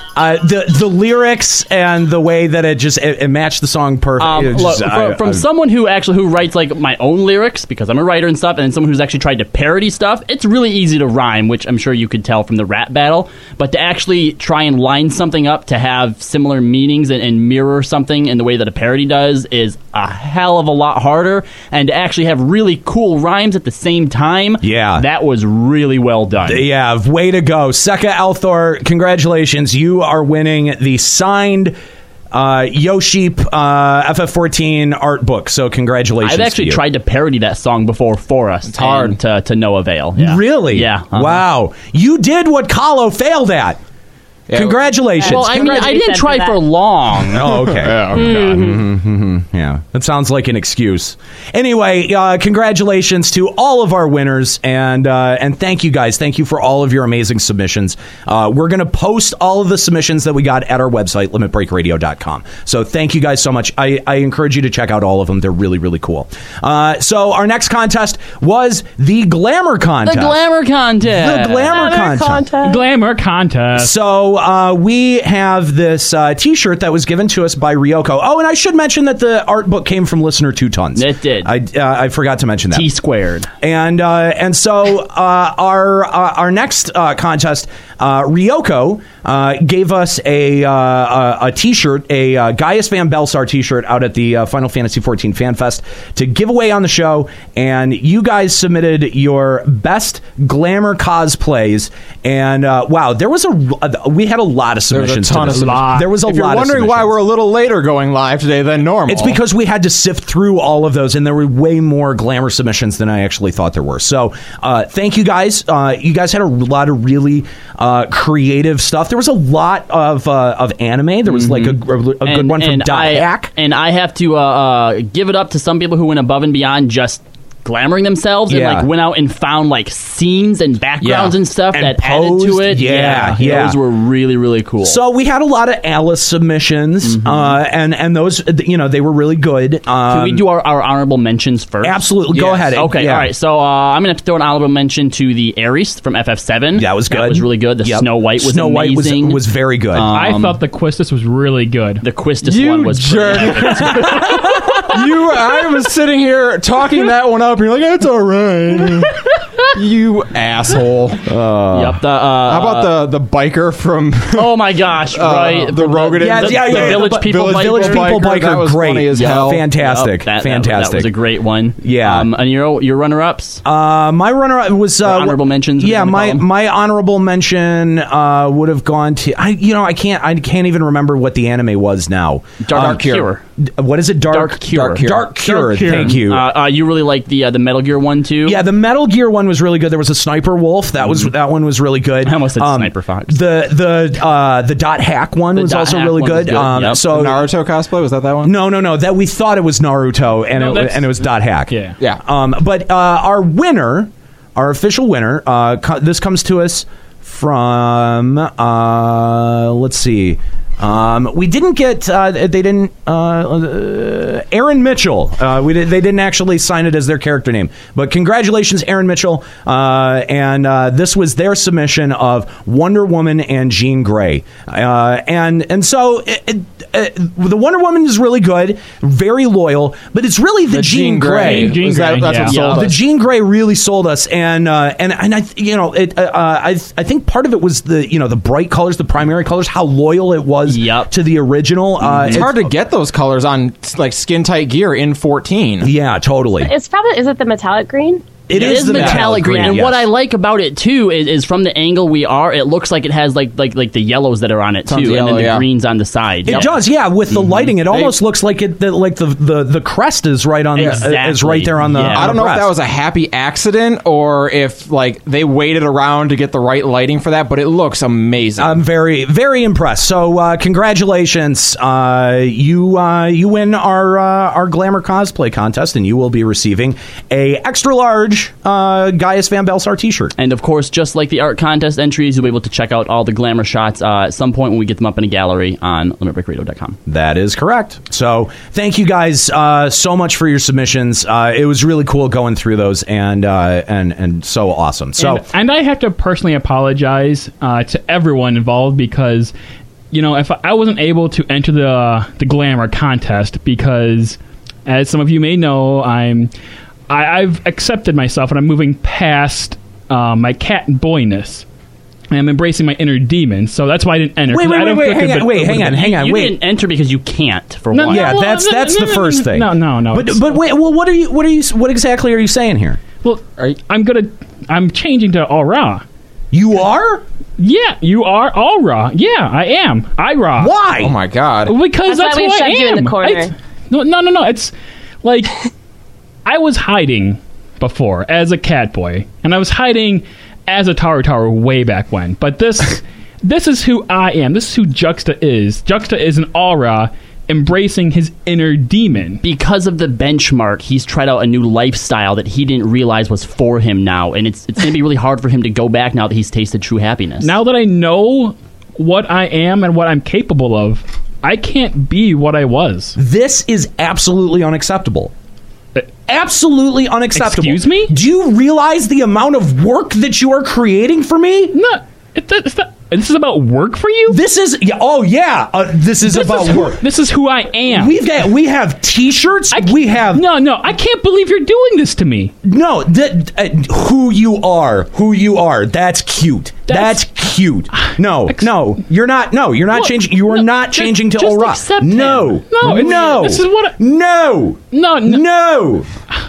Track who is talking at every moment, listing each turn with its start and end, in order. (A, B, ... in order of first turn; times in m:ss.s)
0:00.2-0:05.5 A
0:04.2-0:26.7 B
0:24.6-0:25.0 A
0:26.4-0:31.8 A
0:32.3-0:36.8 A
0:36.2-0:41.4 B
0:38.7-0:39.2 C
0:40.2-0:43.8 A
0:44.5-0:44.8 C
0:44.5-0:45.9 A
0:45.2-0:46.6 D
0:45.2-0:47.6 B
0:47.3-1:10.4 A
0:47.6-0:48.3 C
0:48.1-0:48.8 D
1:10.0-1:11.8 B
1:11.0-1:12.5 A
1:11.7-1:12.8 D
1:12.6-1:13.9 E
1:13.8-1:22.9 A
1:21.0-1:21.5 B
1:22.7-1:23.5 B
1:23.6-1:47.2 A
1:44.9-1:49.4 C
1:45.6-1:46.2 E
1:49.1-2:03.5 A
2:01.3-2:15.0 B
2:08.5-2:08.9 A
2:11.0-2:13.8 A
2:14.8-2:20.4 A
2:17.0-2:17.6 B
2:20.1-2:30.6 B
2:21.8-2:23.3 A
2:22.4-2:22.7 C
2:26.8-2:30.1 A
2:30.1-2:32.0 E
2:32.0-2:34.4 B
2:32.4-2:34.2 C
2:33.8-2:34.8 A
2:34.9-2:39.1 C
2:39.8-2:41.2 C
2:41.3-2:42.0 A
2:41.7-2:43.0 B
2:42.5-2:49.6 C
2:44.3-2:48.2 B
2:46.2-2:51.1 A
2:49.1-2:53.6 B
2:51.8-2:52.3 A
2:53.6-3:03.0 A
2:55.0-2:56.5 B
3:02.6-3:03.4 B
3:02.8-3:03.3 C
3:03.6-3:06.5 A
3:04.3-3:08.6 B
3:04.7-3:05.3 C
3:05.5-3:06.2 E
3:08.4-3:17.5 A
3:12.2-3:13.4 B
3:15.5-3:17.0 B
3:17.0-3:18.5 C
3:18.4-3:51.8 A
3:20.5-3:22.0 E
3:50.7-3:53.0 C
3:51.4-3:52.7 E
3:51.4-3:52.9 B
3:52.7-4:02.7 A
4:00.7-4:01.1 B
4:02.0-4:05.9 C
4:05.8-4:06.7 A
4:06.6-4:08.2 D
4:08.5-4:10.1 A
4:08.5-4:16.7 B
4:08.6-4:09.3 C
4:09.5-4:09.8 D
4:14.9-4:15.7 C
4:16.4-4:22.7 A
4:17.3-4:18.2 C
4:20.8-4:22.3 B
4:22.1-4:28.8 C
4:28.6-4:40.3 A
4:40.4-4:47.0 B
4:47.1-4:55.4 A
4:55.2-4:59.5 E
5:00.1-5:06.5 E
5:07.1-5:11.6 E
5:12.3-5:15.9 E
5:14.5-5:16.6 A
5:15.7-5:18.4 B
5:17.9-5:20.6 E
5:18.1-5:23.0 A
5:23.2-5:26.0 E
5:26.5-5:27.2 A
5:27.6-5:30.8 E
5:30.6-5:31.2 A
5:31.0-5:31.8 C
5:31.6-5:35.5 E
5:32.0-5:33.5 D
5:36.5-5:49.4 E
5:49.4-5:57.5 B
5:57.4-6:03.2 E
6:03.2-6:05.3 A
6:06.3-6:11.8 A
6:07.3-6:08.1 E
6:11.7-6:14.4 E
6:14.3-6:17.0 A
6:16.3-6:18.2 E
6:17.9-6:20.5 A
6:19.7-6:22.5 E
6:22.6-6:36.1 A
6:26.9-6:27.3 E
6:27.9-6:28.7 E
6:30.9-6:32.6 B
6:32.7-6:34.0 E
6:34.9-6:35.4 E